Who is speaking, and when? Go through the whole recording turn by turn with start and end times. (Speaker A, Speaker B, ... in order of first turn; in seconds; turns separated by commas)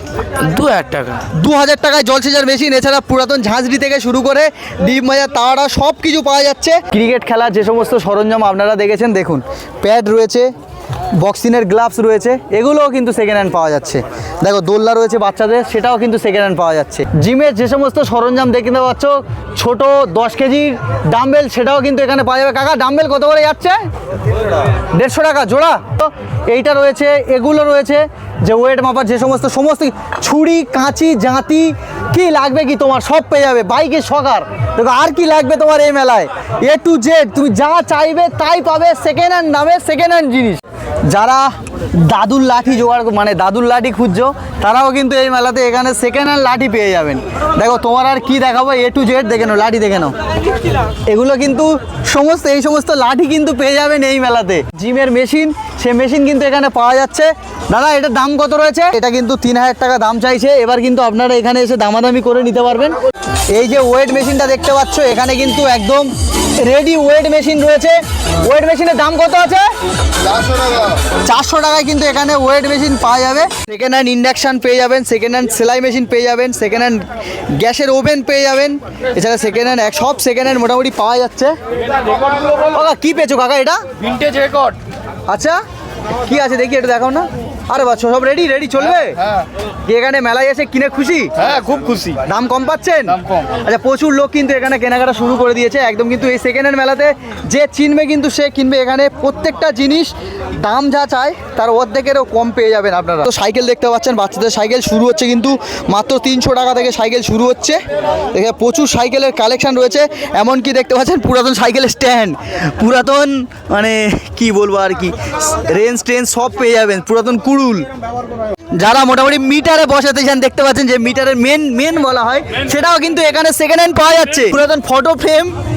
Speaker A: 0.4-1.2, Speaker B: 1.4-10.5, Speaker B: 11.2-23.8, Speaker B: 24.9-50.1, Speaker B: 51.1-63.0, Speaker B: 63.5-69.7, Speaker B: 71.2-81.6, Speaker B: 82.7-83.8, Speaker A: 84.0-84.8, Speaker B: 85.3-85.6, Speaker B: 86.2-89.2, Speaker B: 89.9-91.3, Speaker A: 91.4-92.2, Speaker B: 92.3-107.8, Speaker B: 108.3-117.9, Speaker B: 118.8-125.5